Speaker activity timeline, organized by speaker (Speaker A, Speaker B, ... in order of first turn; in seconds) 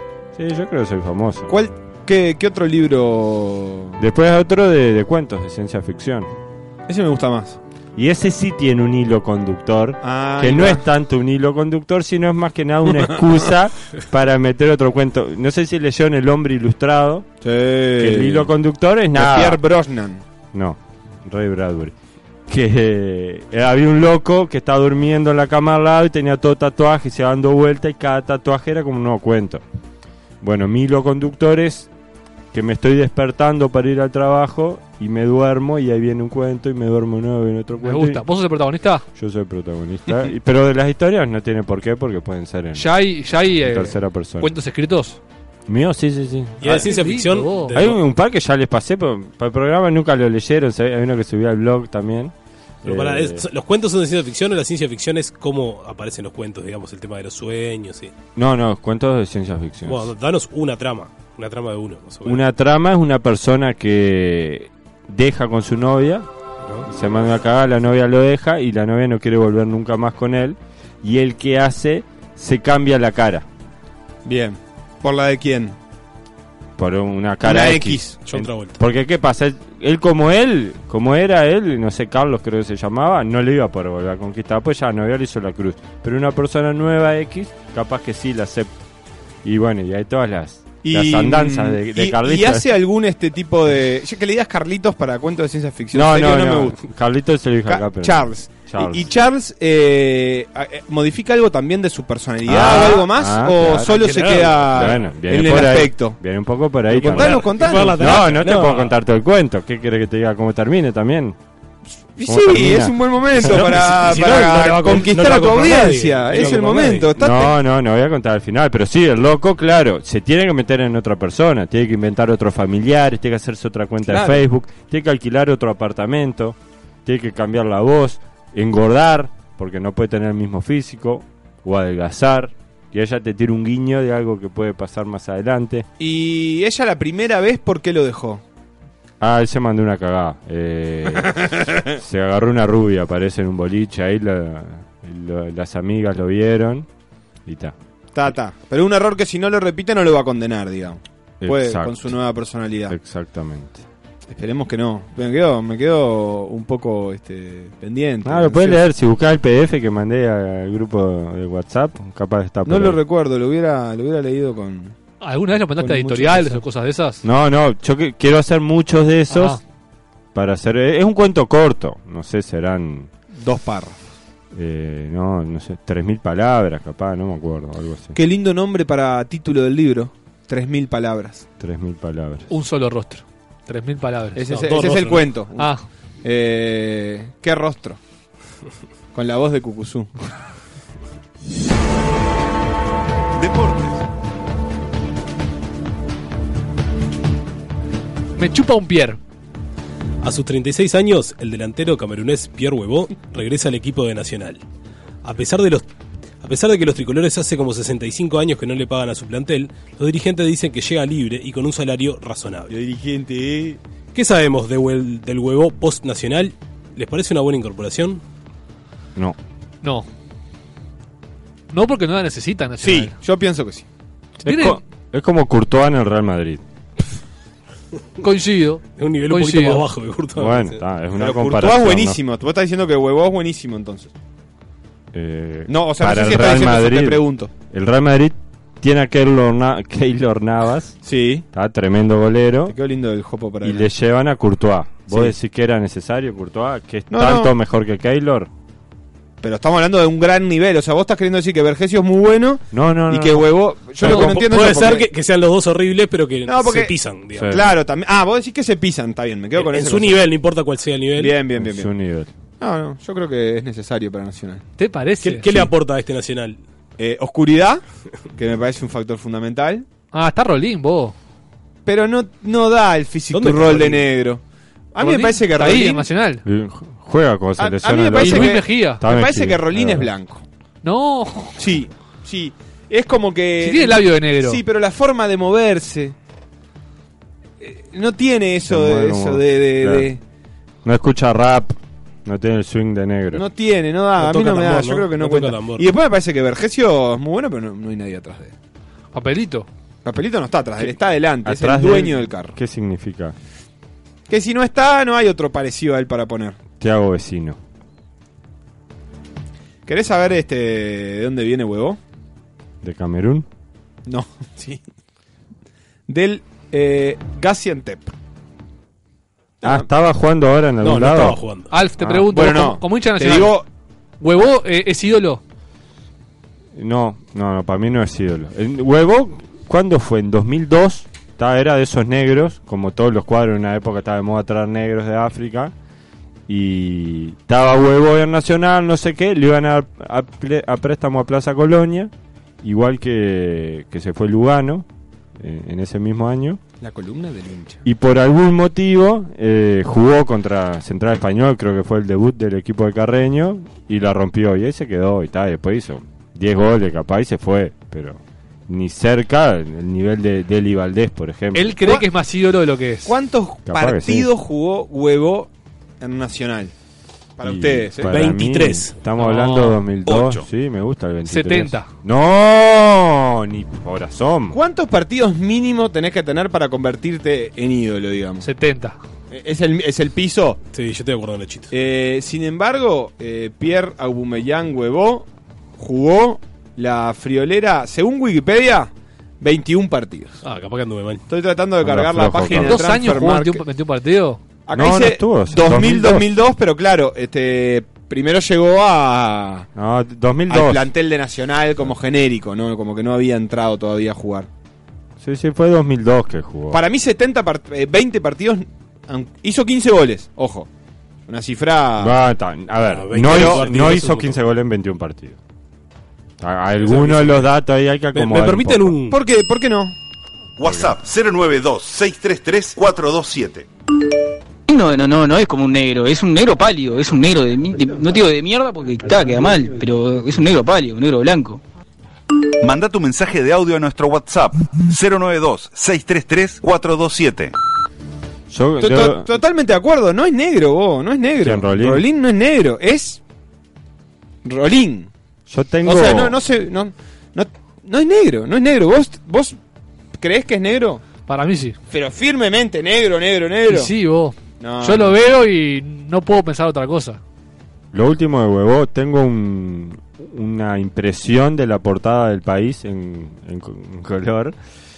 Speaker A: 0.3-1.5, 4.0-6.3, 8.0-17.2, 18.0-19.6, 20.5-21.9, 22.5-29.6, 30.4-31.9, 32.5-38.2, 39.1-42.9, 43.6-44.5, 45.7-46.9, 47.7-53.4, 58.4-60.1, 62.2-66.3, 66.8-73.5, 76.8-88.7, 89.4-92.7, 95.9-99.1, 102.4-103.9, 104.7-111.4, 112.2-114.2, 117.2-135.9, 139.2-141.4, 141.9-146.9, 147.4-147.8, 151.4-152.2, 152.9-153.8, 158.2-163.0, 167.2-169.6, 170.3-173.1, 174.5-178.2, 181.6-182.5, 224.4-226.6, 230.3-232.2, 235.1-241.0, 241.5-242.8, 243.6-248.5, 252.7-254.3, 257.3-257.7, 261.6-262.3, 276.4-280.1, 288.6-290.1, 290.8-293.4, 301.4-303.4, 306.8-307.6, 312.8-313.4, 319.6-321.4, 322.0-322.3, 326.7-335.7, 336.5-346.6, 347.8-361.8, 363.7-364.3, 367.4-374.6, 391.8-392.9, 394.7-396.3, 399.7-400.9, 405.2-406.8, 412.0-415.4, 416.4-418.9, 420.6-420.9, 438.5-439.3, 441.4-442.0, 445.5-446.4, 457.9-464.5
Speaker B: 1.5-4.0, 6.9-7.6, 10.0-10.8, 17.4-18.5, 19.1-20.2, 74.2-75.8, 77.4-78.2, 90.8-96.8, 97.7-106.2, 106.9-108.4, 112.1-117.5, 124.0-124.4, 136.0-138.4, 141.4-141.7, 148.1-152.9, 154.3-158.8, 162.7-164.9, 165.8-166.6, 173.4-174.0, 178.1-181.4, 184.3-185.7, 186.2-188.0, 189.1-190.1, 212.7-213.8, 222.8-223.8, 231.2-234.1, 235.7-237.5, 241.0-241.4, 242.7-243.9, 245.1-245.3, 247.1-247.5, 249.4-255.1, 256.5-256.9, 257.5-260.2, 261.2-261.9, 262.6-264.6, 267.0-267.8, 268.4-269.8, 271.9-274.4, 274.9-276.1, 277.6-280.4, 281.6-286.1, 287.6-290.2, 293.3-298.5, 300.0-302.6, 304.3-306.6, 309.9-312.0, 314.1-314.8, 316.1-318.1, 319.6-319.9, 322.3-323.6, 346.8-347.8, 363.0-366.7, 367.4-368.2, 374.5-378.4, 379.3-380.6, 381.7-390.4, 391.3-393.6, 394.7-399.7, 400.5-404.5, 406.7-410.7, 411.3-412.1, 413.2-413.7, 419.1-419.9, 438.8-443.2, 444.4-445.1, 445.8-449.6, 450.2-451.0, 451.9-453.9, 454.6-455.1
Speaker C: 37.8-39.0, 42.7-45.2, 46.6-47.7, 104.1-104.4, 165.2-167.2, 169.3-169.6, 182.5-184.4, 185.6-185.8, 198.4-199.2, 219.8-220.1, 221.7-223.1, 224.4-224.8, 228.2-229.8, 264.8-265.6, 270.1-271.1, 275.0-276.4, 278.2-279.0, 280.8-281.6, 283.6-284.6, 299.1-299.7, 321.7-323.6, 324.2-325.4, 361.5-363.1, 369.2-369.8, 371.2-371.9, 378.4-379.0, 392.5-394.4, 451.3-451.8, 453.7-457.2
Speaker D: 46.6-48.0, 52.8-58.1, 59.9-62.4, 78.2-78.8, 102.5-103.0, 103.8-105.0, 106.9-109.0, 113.3-117.1, 184.5-185.3, 200.2-204.6, 205.2-205.8, 206.4-212.7, 214.1-218.2, 229.0-230.8, 254.0-257.6, 259.5-261.4, 265.2-266.6, 273.3-274.1, 294.2-295.9, 320.8-321.7, 368.0-368.9, 380.7-381.7, 390.4-391.2, 412.9-414.4, 416.8-417.5, 418.1-419.2
Speaker E: 193.3-194.0, 370.1-370.4, 420.6-423.7, 432.6-437.5
Speaker F: 424.7-431.6